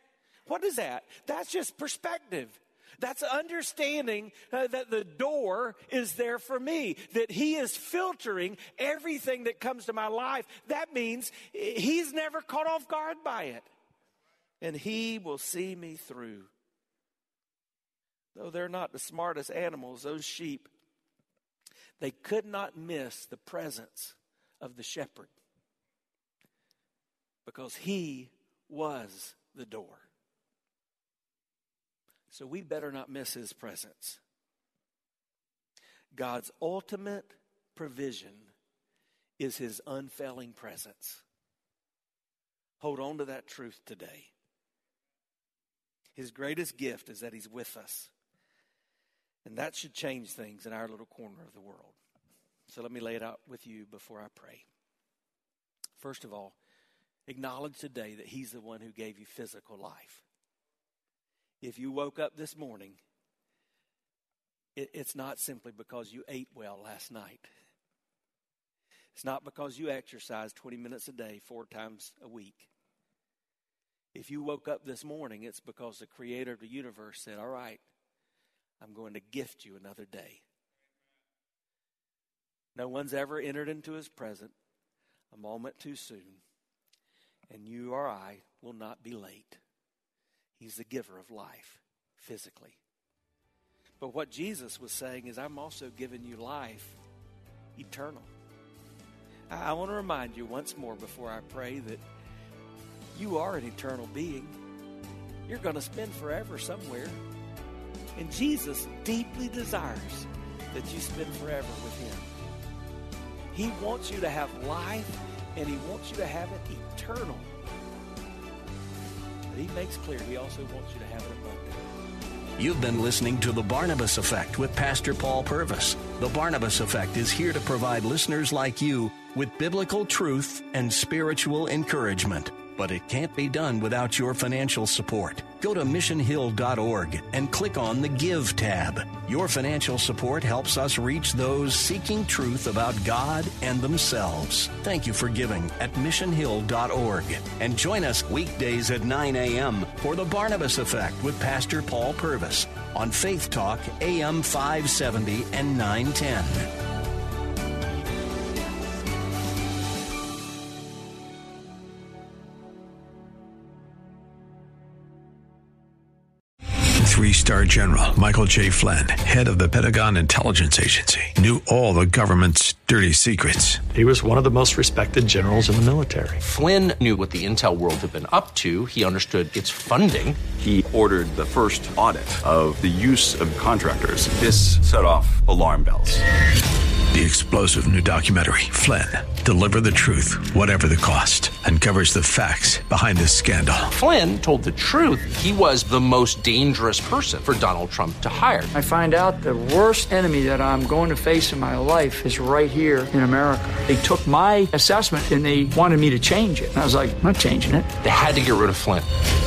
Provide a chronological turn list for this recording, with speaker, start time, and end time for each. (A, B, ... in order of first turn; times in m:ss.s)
0:00.5-0:13.7 A
0:14.6-0:16.5 A
0:18.3-0:20.7 A
0:22.0-0:25.3 A
0:27.4-0:30.1 A
0:32.3-0:34.2 A
0:36.1-0:38.5 A
0:39.4-0:41.2 A
0:42.8-0:44.3 A
0:46.2-0:48.1 A
0:49.4-0:52.0 A
0:52.7-0:54.6 A
0:56.0-0:56.6 A
0:57.3-1:00.2 A
1:01.6-1:03.0 A
1:04.7-1:07.5 A
1:09.2-1:12.7 A
1:14.1-1:17.8 A
1:18.8-1:20.4 A
1:22.7-1:24.5 A
1:25.3-1:26.4 A
1:27.5-1:29.6 A
1:30.6-1:32.8 A
1:34.0-1:37.0 A
1:37.8-1:38.3 A
1:39.5-1:42.0 A
1:43.1-1:44.6 A
1:45.5-1:47.2 A
1:48.2-1:52.3 A
1:53.5-1:57.5 A
1:59.5-2:01.8 A
2:02.6-2:36.7 B
2:47.0-2:53.8 C
2:53.9-2:56.4 D
2:56.4-3:00.4 E
3:00.6-3:06.2 F
3:07.1-3:13.9 C
3:13.9-3:18.7 E
3:18.7-3:27.9 G
3:28.0-3:29.1 E